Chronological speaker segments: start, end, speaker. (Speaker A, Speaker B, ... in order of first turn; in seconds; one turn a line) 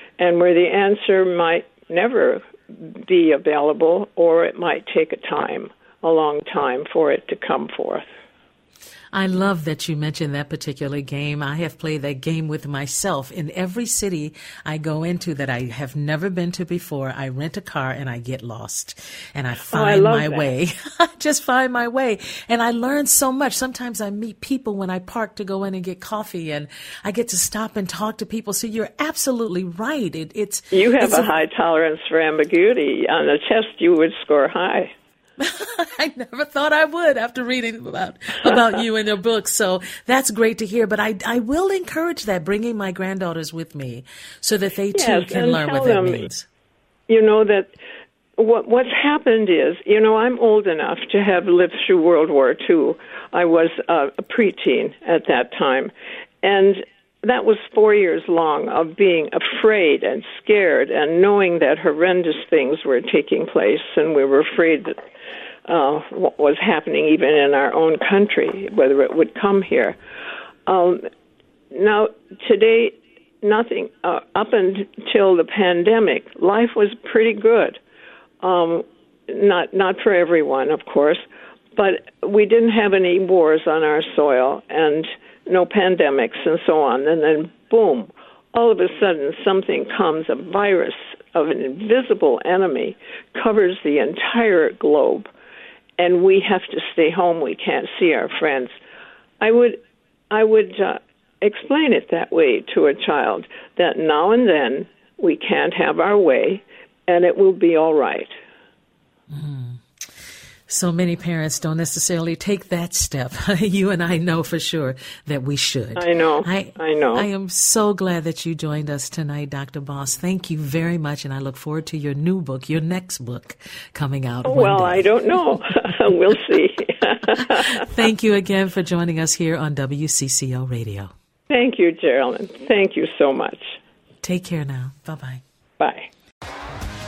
Speaker A: 0.2-8.1
Speaker B: 9.1-31.3
Speaker A: 19.7-20.5
Speaker A: 30.7-34.9
Speaker B: 35.4-46.5
Speaker A: 44.9-46.3
Speaker A: 47.1-47.7
Speaker A: 48.4-65.0
Speaker A: 65.7-70.0
Speaker A: 70.7-71.0
Speaker A: 71.7-77.8
Speaker A: 78.4-81.2
Speaker A: 81.8-95.3
Speaker A: 96.0-98.7
Speaker A: 99.4-99.8
Speaker A: 100.3-108.3
Speaker B: 109.3-109.8
Speaker B: 110.7-125.6
Speaker A: 116.0-117.3
Speaker A: 124.5-127.8
Speaker B: 127.4-131.1
Speaker A: 131.5-133.8
Speaker B: 134.2-135.4
Speaker A: 135.8-136.1